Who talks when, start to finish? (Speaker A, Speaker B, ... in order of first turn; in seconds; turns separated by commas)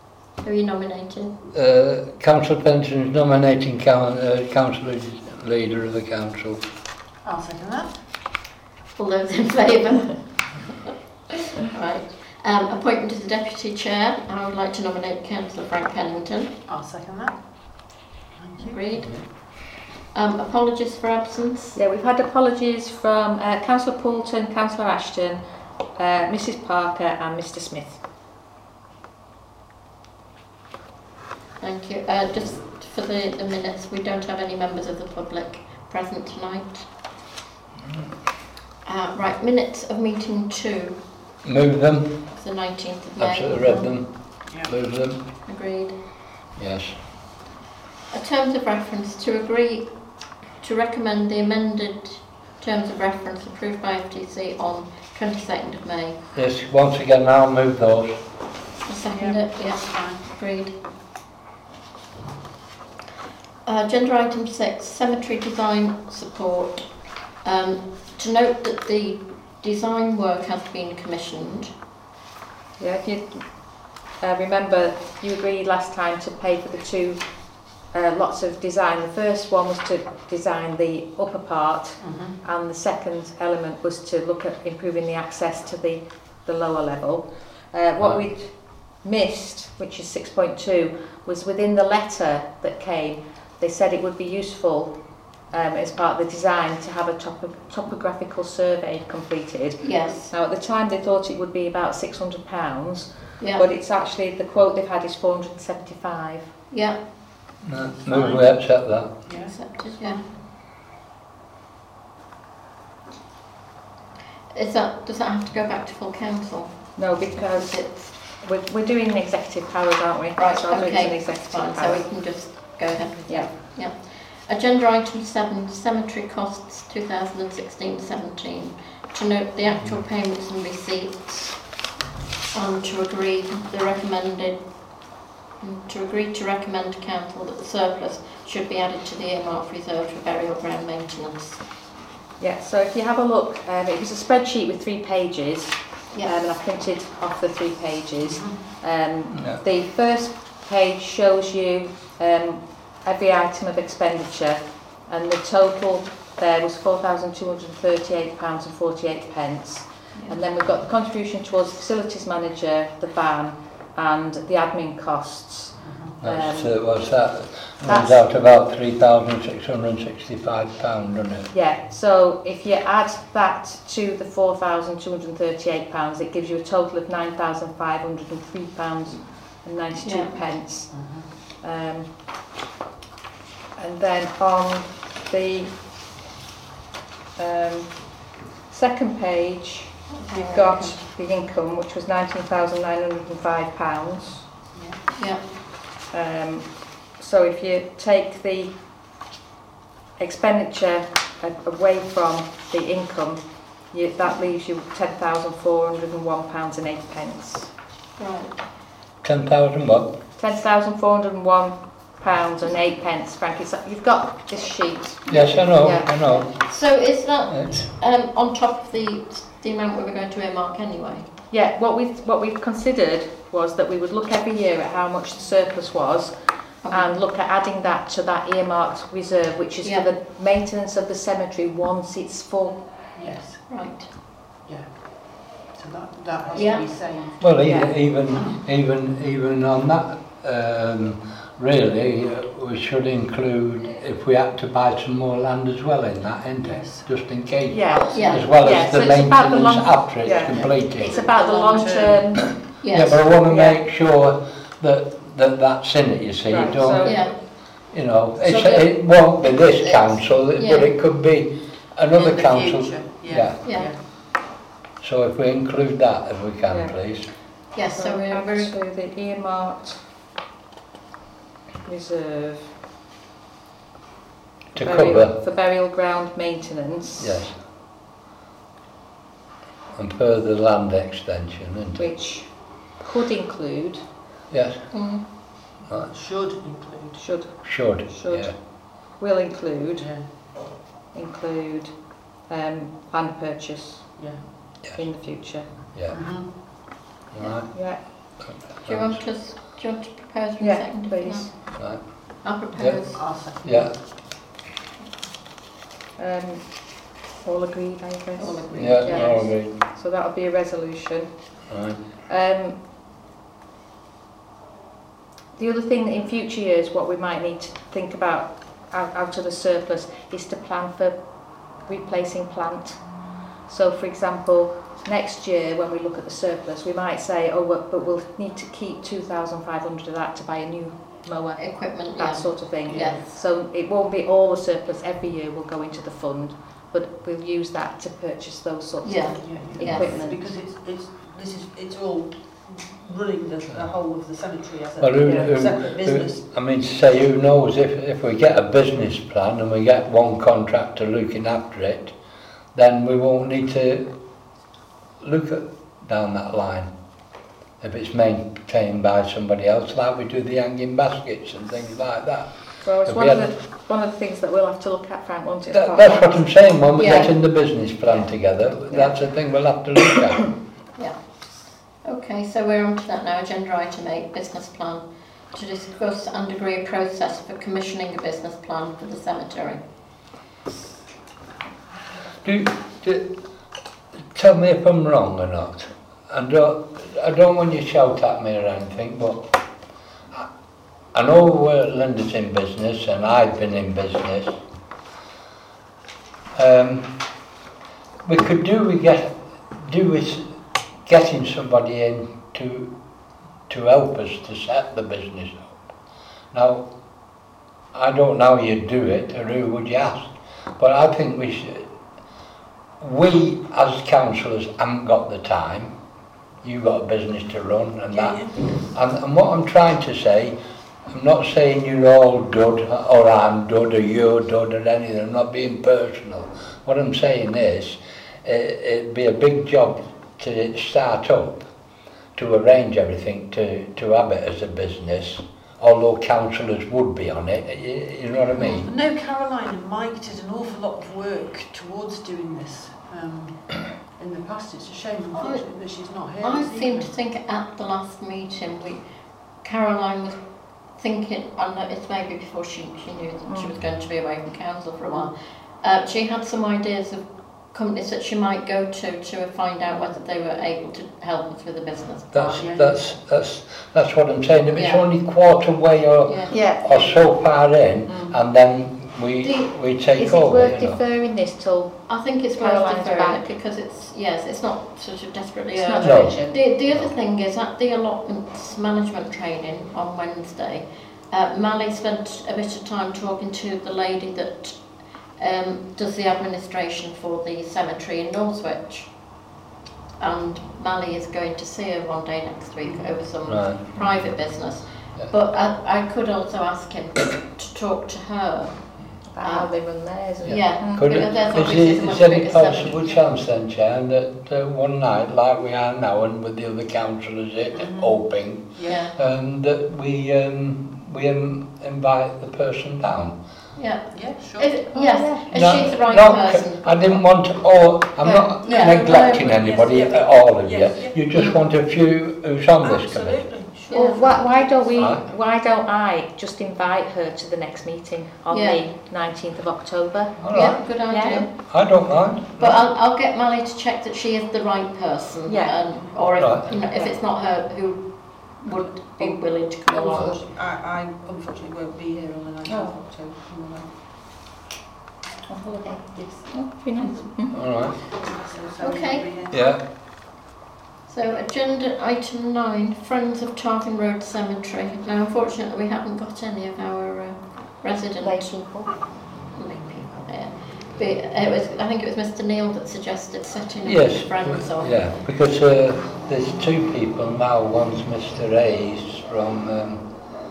Speaker A: 0.4-1.4, Speaker B: 1.5-6.6, Speaker C: 7.2-8.0, Speaker A: 9.0-10.8, Speaker A: 11.5-16.5, Speaker C: 16.7-18.8, Speaker A: 18.6-21.8, Speaker B: 19.0-19.2, Speaker D: 21.7-25.4, Speaker D: 25.9-28.0, Speaker A: 31.6-36.9, Speaker A: 38.8-41.0, Speaker B: 41.4-42.2, Speaker A: 42.3-43.9, Speaker B: 43.2-45.2, Speaker C: 44.5-44.7, Speaker A: 45.5-46.0, Speaker B: 46.5-47.0, Speaker A: 48.1-49.9, Speaker A: 50.5-56.2, Speaker B: 56.3-58.2, Speaker A: 58.8-60.8, Speaker C: 59.1-60.2, Speaker A: 63.6-71.7, Speaker D: 72.8-106.5, Speaker C: 82.0-82.4, Speaker B: 88.0-88.2, Speaker A: 99.8-100.3, Speaker A: 103.4-103.7, Speaker A: 106.7-107.0, Speaker B: 107.6-109.2, Speaker C: 109.2-110.3, Speaker A: 109.3-110.2, Speaker A: 114.5-118.2, Speaker D: 117.0-122.1, Speaker A: 120.3-131.7, Speaker D: 123.3-123.5, Speaker A: 132.5-134.6, Speaker A: 135.6-141.6, Speaker D: 142.4-166.8, Speaker A: 146.1-146.4, Speaker C: 148.2-148.7, Speaker B: 149.3-149.6, Speaker C: 165.8-166.2, Speaker B: 166.2-171.5, Speaker D: 167.8-168.2, Speaker D: 171.5-182.1, Speaker A: 180.0-180.4, Speaker C: 180.9-181.3, Speaker D: 183.8-185.7, Speaker D: 187.3-194.5, Speaker A: 190.1-190.9, Speaker C: 190.3-190.9, Speaker C: 194.7-195.0, Speaker A: 195.1-195.4, Speaker D: 196.1-198.7, Speaker D: 200.2-207.7, Speaker A: 208.2-208.6, Speaker B: 209.2-210.2, Speaker D: 210.4-216.4, Speaker B: 215.3-216.5, Speaker A: 215.3-215.6, Speaker A: 216.4-221.3, Speaker B: 217.5-217.9, Speaker D: 221.5-233.0, Speaker A: 226.8-227.1, Speaker A: 229.8-230.1, Speaker C: 233.1-233.7, Speaker A: 233.7-234.1, Speaker C: 234.6-237.5, Speaker A: 236.5-236.8, Speaker B: 237.4-251.2, Speaker D: 237.6-237.9, Speaker C: 246.6-247.1, Speaker D: 247.7-252.6, Speaker A: 248.1-248.5, Speaker C: 250.5-252.2, Speaker B: 252.6-263.9, Speaker A: 252.8-253.3, Speaker D: 253.4-253.8, Speaker D: 256.5-257.3, Speaker A: 257.0-257.4, Speaker A: 258.5-260.9, Speaker C: 262.1-264.0, Speaker A: 263.6-263.9, Speaker B: 265.0-267.3, Speaker D: 266.7-266.9, Speaker A: 267.7-268.7, Speaker D: 267.9-270.0, Speaker D: 271.8-272.7, Speaker B: 274.7-275.4, Speaker D: 274.7-277.4, Speaker B: 277.2-277.6, Speaker B: 279.9-282.1, Speaker D: 281.9-284.0, Speaker B: 284.5-284.9, Speaker A: 284.9-285.2, Speaker B: 285.9-286.1, Speaker C: 286.1-287.2, Speaker D: 287.2-290.6, Speaker B: 287.6-288.5, Speaker C: 290.0-290.3, Speaker D: 291.1-295.9, Speaker C: 294.1-294.5, Speaker B: 295.7-296.6, Speaker C: 296.1-296.9, Speaker B: 297.3-299.2, Speaker D: 297.7-298.4, Speaker A: 298.8-303.2, Speaker D: 300.6-301.5, Speaker B: 301.8-302.0, Speaker B: 302.8-303.9, Speaker C: 303.1-304.0, Speaker D: 306.2-312.8, Speaker A: 308.4-309.4, Speaker B: 308.8-309.8, Speaker B: 311.7-312.0, Speaker D: 315.6-340.5, Speaker A: 331.6-333.4, Speaker C: 332.9-333.2, Speaker A: 339.0-340.1, Speaker C: 339.4-346.4, Speaker B: 345.0-352.1, Speaker D: 345.2-345.5, Speaker B: 352.7-354.1, Speaker B: 355.2-356.9, Speaker B: 357.8-363.5, Speaker D: 362.8-367.3, Speaker B: 365.7-370.5, Speaker A: 366.9-367.3, Speaker D: 368.9-369.2, Speaker A: 371.0-379.8, Speaker B: 382.4-383.3, Speaker B: 384.3-389.5, Speaker B: 391.1-394.6, Speaker B: 396.5-397.1, Speaker B: 398.2-402.9, Speaker B: 403.7-405.7, Speaker B: 406.5-406.9, Speaker B: 407.9-411.9, Speaker B: 413.0-415.9, Speaker B: 416.6-420.6, Speaker C: 418.1-418.8, Speaker B: 421.1-431.6, Speaker B: 432.4-438.9, Speaker C: 438.6-447.1, Speaker A: 445.3-449.0, Speaker A: 449.6-462.6, Speaker D: 453.5-453.7, Speaker B: 462.3-471.0, Speaker C: 462.6-463.0, Speaker A: 464.7-465.1, Speaker A: 466.2-466.6, Speaker D: 466.5-467.1, Speaker D: 468.1-468.4, Speaker A: 469.4-469.7, Speaker D: 470.1-473.4, Speaker A: 472.1-489.4, Speaker D: 475.7-476.6, Speaker B: 476.0-477.1, Speaker A: 490.2-503.2, Speaker B: 493.4-493.8, Speaker D: 493.9-494.2, Speaker D: 499.3-501.2, Speaker B: 500.4-513.4, Speaker C: 507.7-509.1, Speaker A: 508.9-509.1, Speaker A: 513.7-517.2, Speaker C: 514.1-514.9, Speaker D: 514.9-515.5, Speaker B: 515.5-523.5, Speaker A: 518.2-519.4, Speaker C: 518.6-521.2, Speaker A: 521.3-521.6, Speaker C: 522.8-525.2, Speaker A: 523.9-524.2, Speaker D: 523.9-531.5, Speaker B: 525.0-525.2, Speaker A: 528.5-528.8, Speaker B: 530.4-530.8, Speaker A: 530.5-531.5, Speaker B: 531.5-532.8, Speaker A: 532.6-540.4, Speaker D: 535.5-535.9, Speaker B: 536.4-536.7, Speaker D: 536.9-537.2, Speaker C: 539.9-543.9, Speaker B: 540.1-540.3, Speaker D: 542.6-543.0, Speaker D: 545.5-547.7, Speaker C: 546.1-546.5, Speaker B: 547.5-548.0, Speaker C: 548.0-549.6, Speaker A: 548.8-549.3, Speaker B: 549.5-549.8, Speaker A: 551.1-565.0, Speaker D: 558.2-558.9, Speaker B: 563.8-570.1